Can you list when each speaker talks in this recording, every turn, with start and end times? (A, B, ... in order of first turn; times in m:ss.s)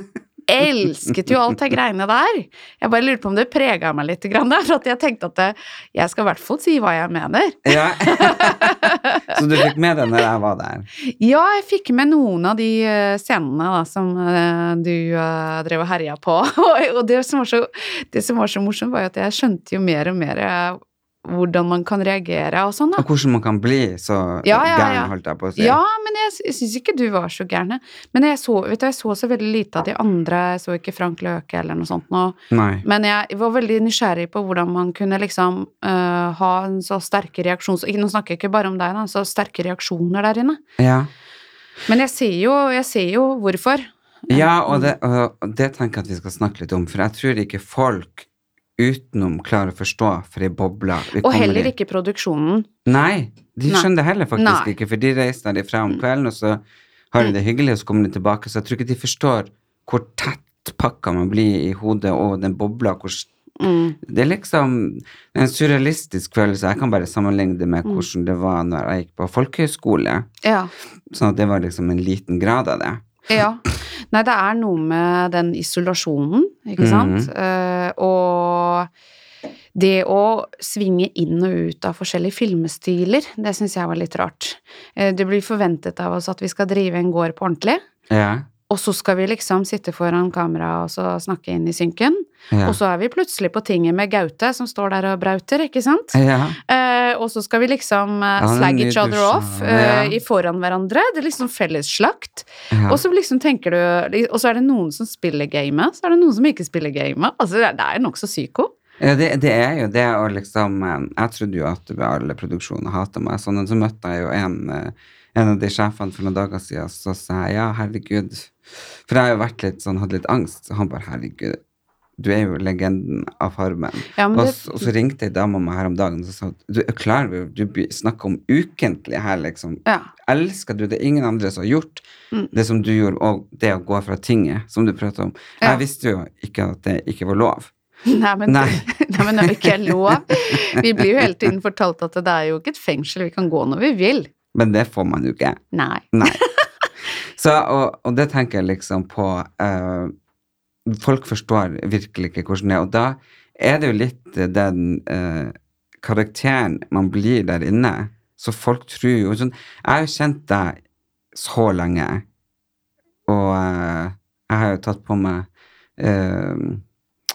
0:00.5-0:09.4 A
0:07.6-0:10.9 B
0:11.0-0:23.0 A
0:23.0-0:25.8 B
0:24.4-0:40.6 A
0:32.5-0:32.9 B
0:40.8-0:41.1 B
0:41.9-0:44.9 A
0:44.3-0:48.3 B
0:48.8-0:51.7 B
0:51.2-0:52.7 A
0:52.9-1:03.3 B
0:53.7-0:54.7 A
1:03.6-1:04.0 A
1:04.0-1:10.3 B
1:10.4-1:10.7 A
1:11.1-1:13.1 B
1:13.3-1:18.9 A
1:16.8-1:17.3 B
1:19.7-1:27.8 A
1:28.1-1:28.5 B
1:28.7-1:48.7 A
1:32.5-1:32.8 B
1:36.1-1:36.6 B
1:38.4-1:40.2 B
1:42.7-1:43.0 B
1:49.0-1:58.5 B
1:59.1-2:01.6 B
2:02.2-2:17.7 B
2:04.2-2:04.9 A
2:18.1-2:24.3 A
2:18.5-2:21.0 B
2:24.5-2:25.6 B
2:25.7-2:26.6 A
2:26.1-2:26.4 B
2:27.4-2:30.1 B
2:30.9-2:40.8 B
2:41.3-2:42.2 B
2:43.3-2:45.5 B
2:46.0-2:46.8 B